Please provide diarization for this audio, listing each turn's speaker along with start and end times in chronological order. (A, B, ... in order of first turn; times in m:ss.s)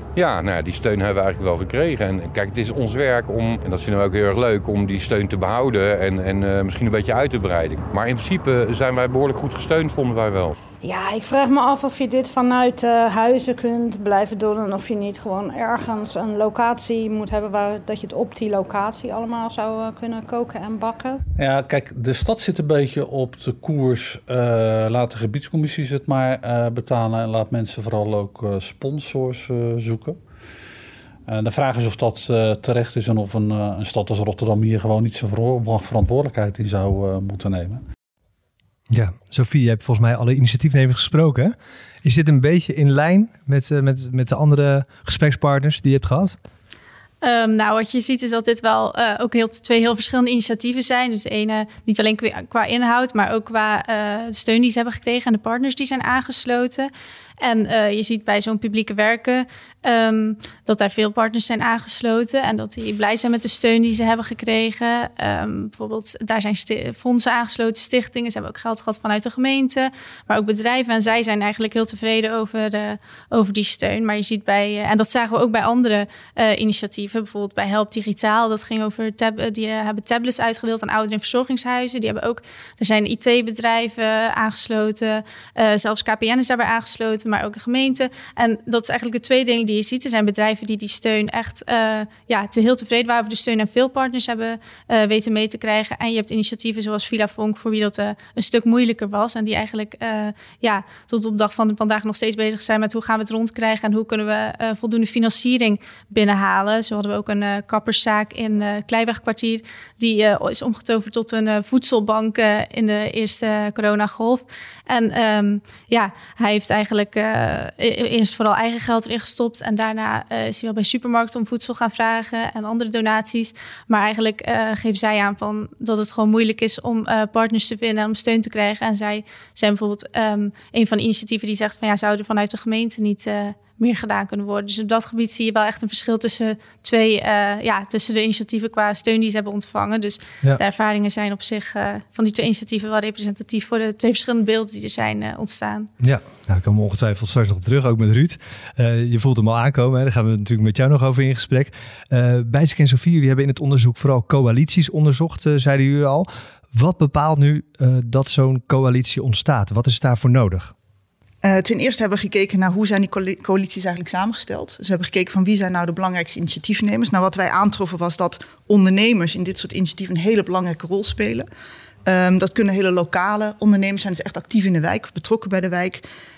0:00.2-0:10.5 A
0:10.8-0:21.2 B
0:21.4-0:30.2 C
0:31.3-0:37.8 C
0:38.9-0:46.4 D
0:47.2-0:56.9 E
0:57.4-2:25.9 E
2:26.0-2:40.7 D
2:41.4-2:51.5 F
2:52.1-2:56.0 F